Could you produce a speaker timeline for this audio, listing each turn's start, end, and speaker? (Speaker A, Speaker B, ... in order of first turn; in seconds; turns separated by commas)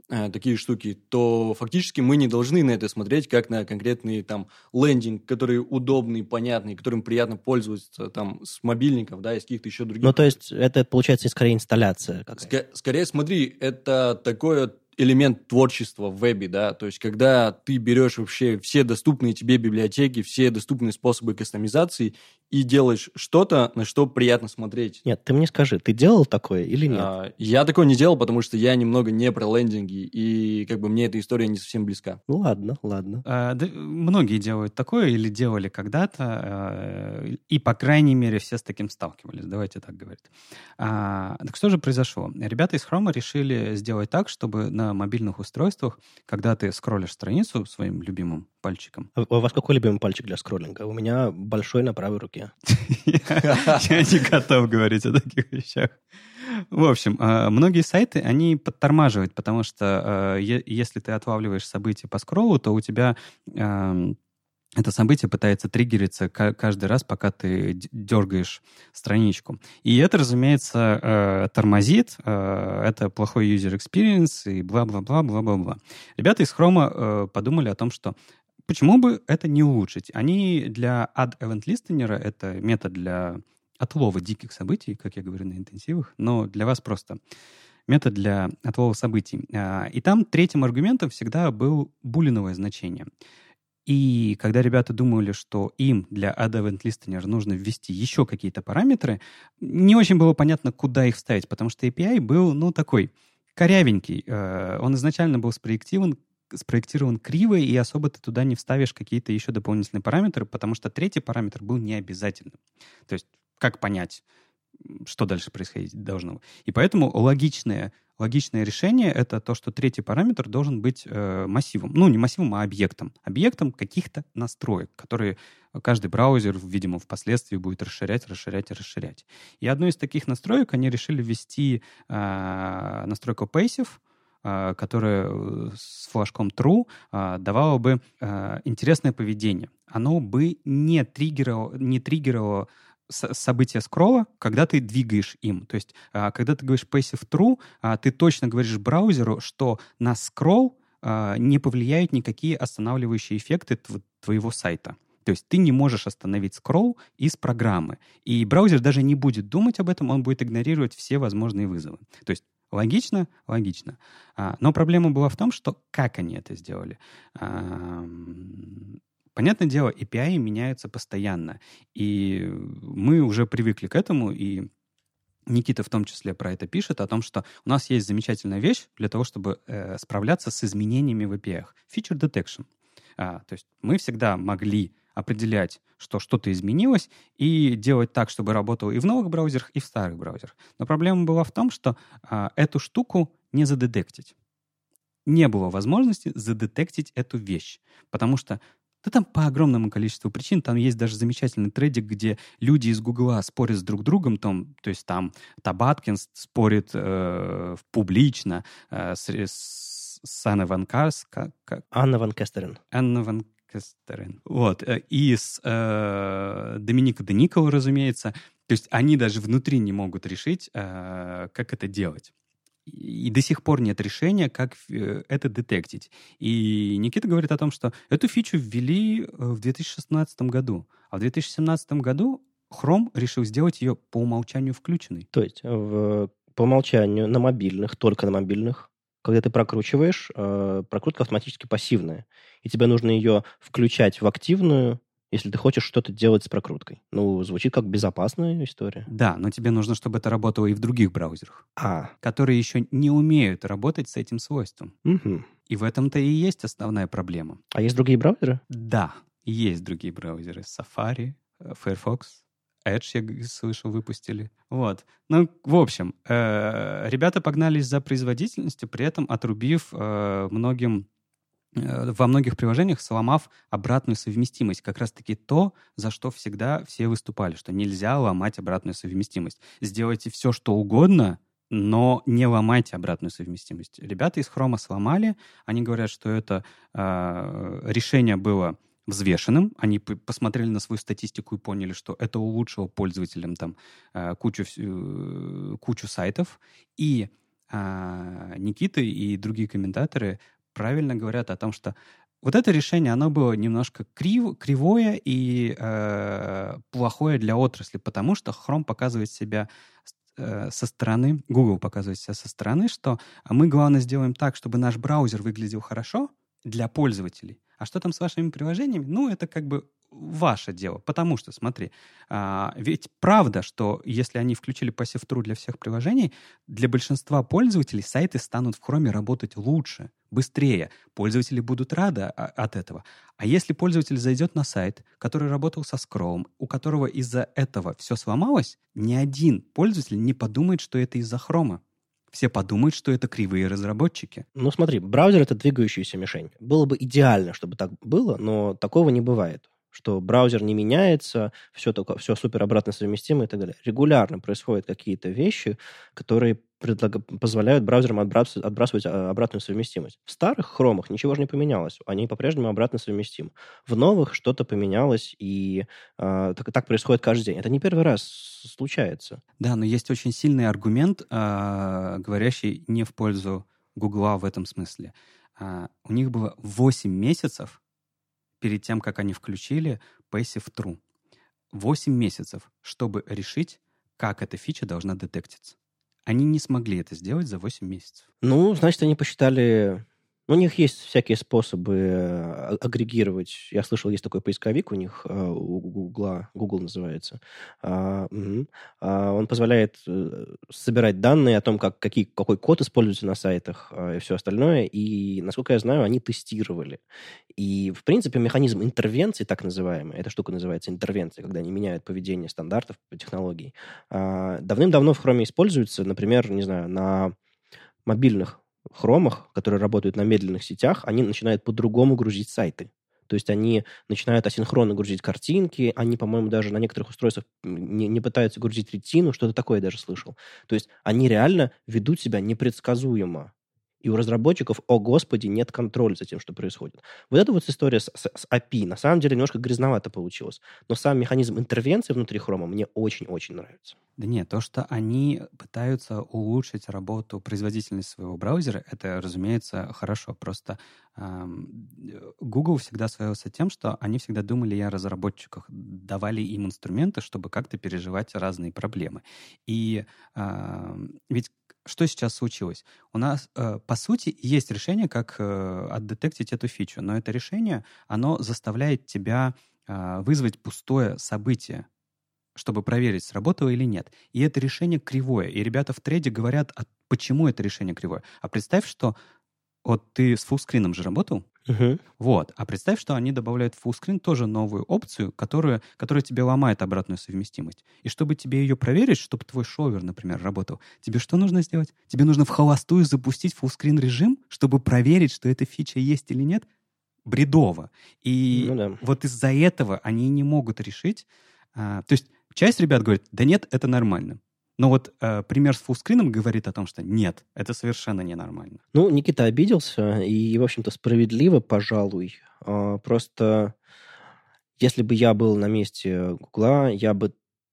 Speaker A: 0.1-10.4, Speaker B: 10.0-12.5, Speaker A: 12.4-25.0, Speaker B: 25.1-27.1, Speaker A: 26.9-32.2, Speaker B: 32.3-33.2, Speaker C: 33.2-49.1, Speaker B: 49.2-52.5, Speaker C: 52.7-64.2, Speaker A: 53.4-53.8, Speaker C: 64.8-87.2, Speaker C: 87.9-93.1, Speaker C: 93.9-114.2, Speaker C: 114.8-174.7, Speaker C: 175.5-182.7, Speaker C: 183.2-194.3, Speaker C: 195.3-211.8, Speaker B: 211.9-212.8, Speaker C: 212.9-222.3, Speaker C: 222.9-235.3, Speaker B: 235.3-249.1, Speaker C: 249.1-251.7, Speaker B: 251.8-252.1, Speaker C: 252.2-254.9, Speaker B: 255.1-255.5, Speaker C: 255.7-257.6, Speaker B: 257.7-258.6, Speaker C: 258.7-271.1, Speaker C: 271.8-309.7, Speaker C: 310.4-341.8, Speaker C: 342.3-344.4, Speaker B: 344.6-369.4, Speaker C: 369.6-377.8, Speaker C: 378.6-381.0, Speaker C: 381.7-388.2, Speaker B: 388.4-407.0, Speaker B: 407.6-417.4, Speaker B: 418.1-433.5, Speaker B: 434.0-444.0, Speaker C: 444.2-471.9, Speaker C: 472.6-479.2, Speaker C: 479.9-481.4, Speaker B: 481.7-482.0, Speaker C: 482.2-496.7, Speaker C: 497.3-508.8, Speaker B: 498.5-499.0, Speaker B: 508.9-513.7, Speaker B: 514.8-517.3